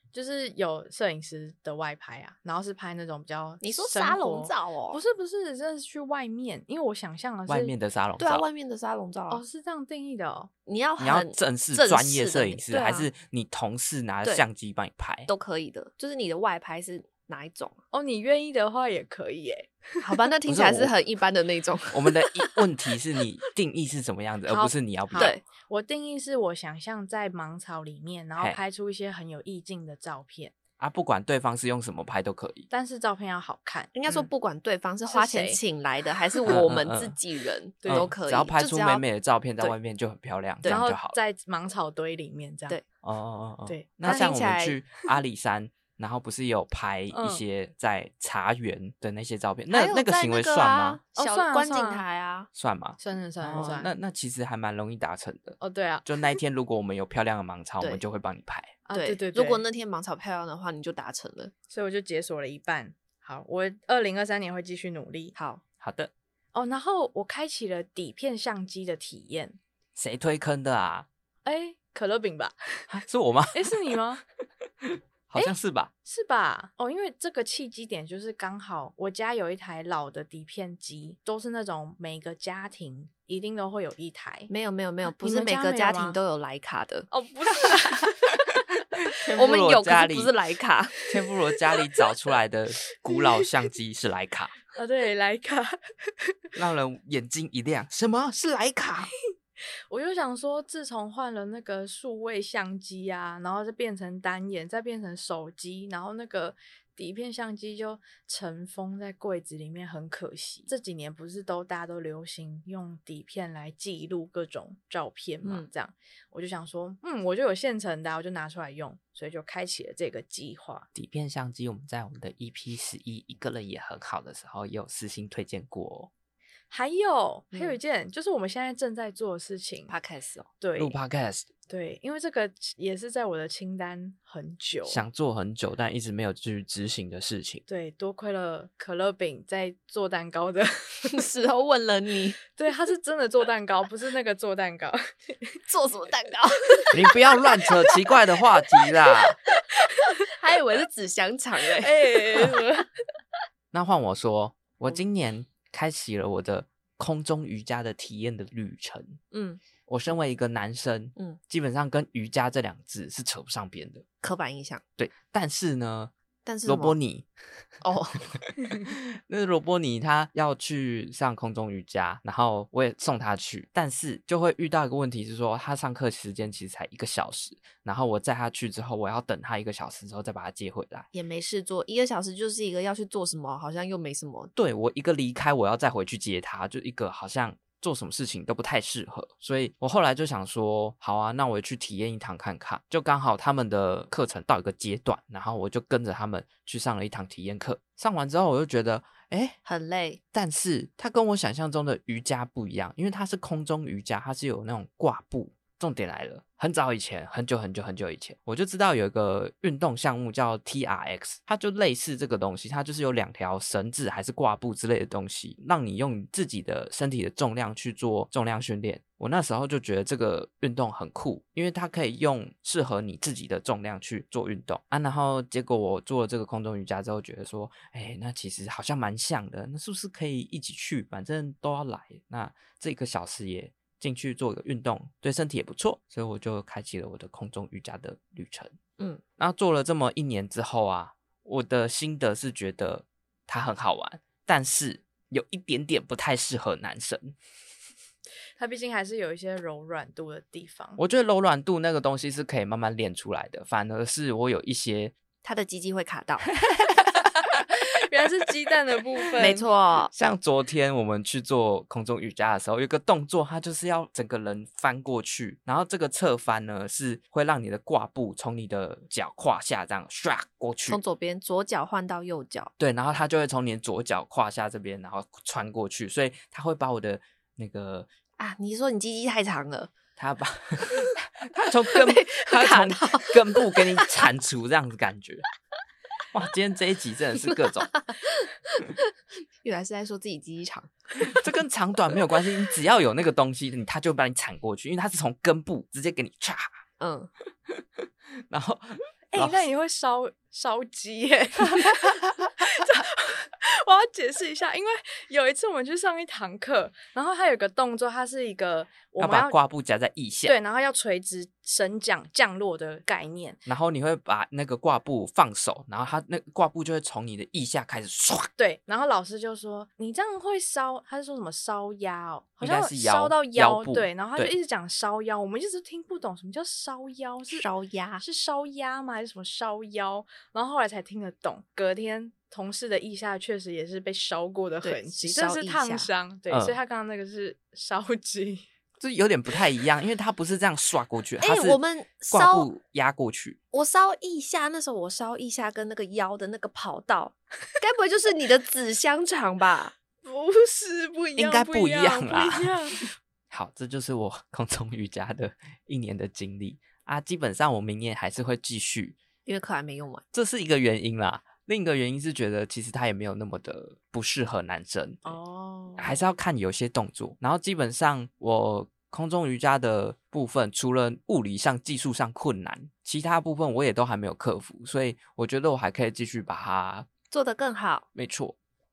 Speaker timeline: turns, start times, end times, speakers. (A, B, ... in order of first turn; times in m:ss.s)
0:00.1-0:07.7 A
0:03.6-0:05.0 B
0:07.5-0:08.4 C
0:08.2-0:09.4 B
0:09.3-0:10.5 A
0:10.7-0:13.1 B
0:11.0-0:15.3 C
0:15.3-0:17.8 B
0:17.9-0:20.0 A
0:20.0-0:22.6 B
0:20.5-0:20.9 C
0:21.9-0:25.3 C
0:24.5-0:30.5 A
0:25.2-0:25.4 B
0:30.8-0:32.7 C
0:32.7-0:33.9 A
0:33.9-0:39.0 B
0:35.1-0:35.6 A
0:36.5-0:37.2 C
0:37.8-0:38.1 A
0:37.9-0:41.2 C
0:40.6-0:42.8 A
0:43.0-0:51.0 C
0:43.7-0:44.3 A
0:44.1-0:44.8 B
0:47.1-0:47.4 A
0:49.7-0:52.5 B
0:51.2-0:52.0 A
0:52.6-0:58.8 C
0:53.0-0:53.9 A
0:55.6-0:56.4 A
0:58.9-0:59.6 A
0:59.0-1:01.5 B
1:01.7-1:05.3 A
1:05.4-1:05.6 B
1:05.8-1:06.1 C
1:06.5-1:09.6 A
1:10.0-1:11.1 C
1:11.4-1:12.9 A
1:12.9-1:13.9 C
1:13.5-1:14.2 A
1:14.8-1:15.9 C
1:15.4-1:24.5 A
1:24.5-1:27.1 B
1:25.2-1:26.2 A
1:27.1-1:29.1 A
1:29.2-1:30.3 C
1:29.3-1:31.0 B
1:31.1-1:34.5 C
1:34.8-1:35.8 A
1:36.6-1:39.1 C
1:39.9-2:00.9 A
2:01.0-2:06.1 C
2:06.7-2:09.9 A
2:09.9-2:10.5 B
2:10.6-2:11.0 A
2:10.8-2:11.5 C
2:11.7-2:15.0 A
2:14.9-2:17.6 C
2:17.7-2:21.2 A
2:21.1-2:22.4 B
2:22.5-2:25.6 A
2:25.7-2:27.0 B
2:26.9-2:29.4 C
2:29.8-2:32.6 B
2:31.8-2:32.9 A
2:33.7-2:39.2 C
2:39.3-2:39.6 B
2:39.9-2:44.0 C
2:44.2-2:44.8 B
2:45.0-2:46.1 C
2:46.4-2:47.0 B
2:46.6-2:47.3 C
2:47.8-2:48.4 B
2:48.4-3:01.1 C
3:01.1-3:04.5 B
3:04.6-3:19.6 C
3:19.6-3:20.2 B
3:20.3-3:58.7 C
3:59.4-4:07.4 C
4:08.6-4:11.0 A
4:11.0-4:15.1 C
4:15.4-4:16.5 B
4:16.6-4:17.2 C
4:17.9-4:19.7 A
4:19.4-4:20.1 B
4:20.1-4:31.0 C
4:30.9-4:32.7 B
4:32.8-4:38.1 C
4:38.4-4:39.9 B
4:40.2-4:45.4 C
4:41.9-4:44.2 B
4:46.3-4:47.9 C
4:47.5-4:49.1 B
4:49.6-4:51.4 B
4:51.2-4:56.8 C
4:57.0-4:57.3 B
4:57.7-4:59.6 C
4:59.3-5:09.6 A
5:01.7-5:02.2 C
5:09.2-5:10.6 C
5:10.4-5:13.6 A
5:13.7-5:18.5 C
5:18.6-5:27.7 A
5:22.6-5:24.6 C
5:27.5-5:28.2 B
5:28.2-5:38.7 A
5:34.8-5:36.1 B
5:36.5-5:36.8 C
5:39.0-5:43.6 C
5:41.4-5:42.7 B
5:43.7-5:49.9 B
5:50.2-5:53.1 A
5:51.4-5:59.2 C
5:59.5-6:00.2 B
6:00.3-6:05.4 C
6:05.2-6:06.2 A
6:06.0-6:17.1 C
6:17.3-6:18.1 B
6:18.2-6:18.6 C